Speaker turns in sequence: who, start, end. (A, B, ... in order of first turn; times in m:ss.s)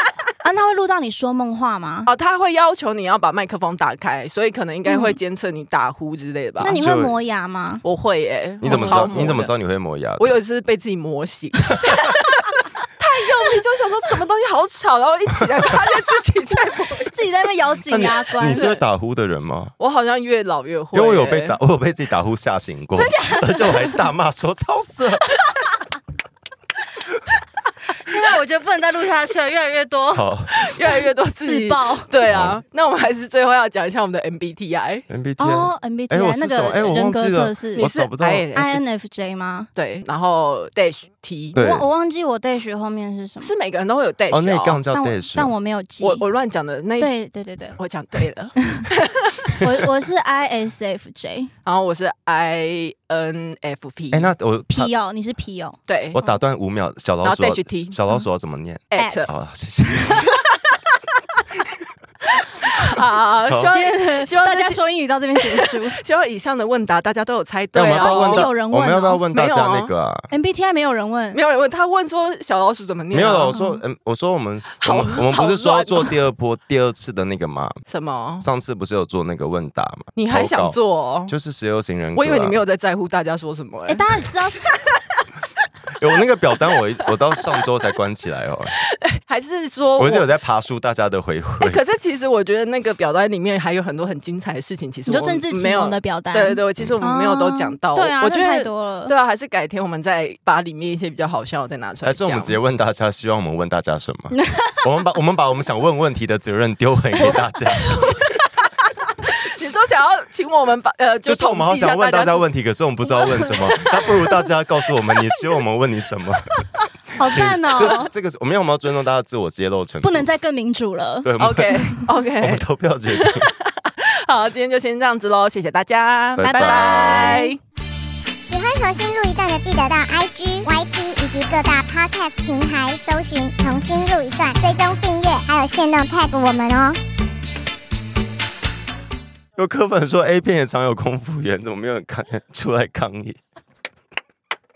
0:00.4-0:02.1 A
0:02.1-0:06.8 B
0:04.9-0:05.2 A
0:06.6-0:07.8 A
0:06.7-0:07.1 C
0:07.8-0:09.5 B
0:08.6-0:10.3 C
0:08.7-0:09.4 A
0:10.2-0:17.1 B
0:16.8-0:18.8 A
0:17.9-0:19.7 C
0:19.8-0:21.6 B
0:20.9-0:25.3 C
0:23.0-0:24.1 A
0:28.1-0:30.2 A
0:30.1-0:30.6 C
0:30.5-0:35.1 B
0:31.4-0:32.1 A
0:32.3-0:32.6 C
0:35.1-0:38.5 C
0:35.4-0:37.9 A
0:37.8-0:38.8 B
0:38.5-0:39.7 A
0:39.8-0:41.6 B
0:41.6-0:41.9 C
0:41.6-0:43.5 A
0:43.4-0:44.8 B
0:44.3-0:45.5 C
0:44.9-0:46.2 A
0:46.0-0:47.1 B
0:47.0-0:47.8 A
0:47.8-0:49.6 B
0:49.6-0:51.5 A
0:51.6-0:54.3 B
0:54.1-0:54.9 C
0:54.7-0:56.3 A
0:55.9-0:56.2 B
0:56.1-1:00.3 C
0:57.2-0:58.0 B
0:58.9-0:59.3 B
0:59.0-0:59.3 A
1:00.3-1:00.8 B
1:02.8-1:04.8 B
1:03.5-1:03.7 C
1:03.7-1:06.0 A
1:05.4-1:08.5 B
1:07.7-1:10.3 C
1:08.0-1:09.2 A
1:09.3-1:09.9 B
1:10.3-1:11.4 A
1:11.3-1:13.6 B
1:13.1-1:17.8 C
1:13.5-1:13.8 A
1:14.8-1:16.2 B
1:17.9-1:18.5 B
1:18.4-1:22.6 C
1:20.2-1:21.3 B
1:22.2-1:24.0 B
1:23.9-1:24.8 A
1:26.0-1:28.7 C
1:28.9-1:30.3 B
1:30.0-1:31.8 C
1:31.6-1:42.6 B
1:35.1-1:39.1 A
1:42.0-1:48.3 C
1:44.3-1:44.8 A
1:47.8-1:48.5 B
1:49.2-1:52.4 B
1:51.2-1:56.6 C
1:53.5-1:54.3 B
1:57.2-1:58.1 A
1:57.2-2:00.3 C
2:00.0-2:01.3 A
2:01.2-2:01.9 C
2:01.4-2:07.6 B
2:02.4-2:03.5 C
2:06.4-2:07.4 C
2:06.6-2:07.5 A
2:08.5-2:17.0 D
2:19.6-2:23.4 C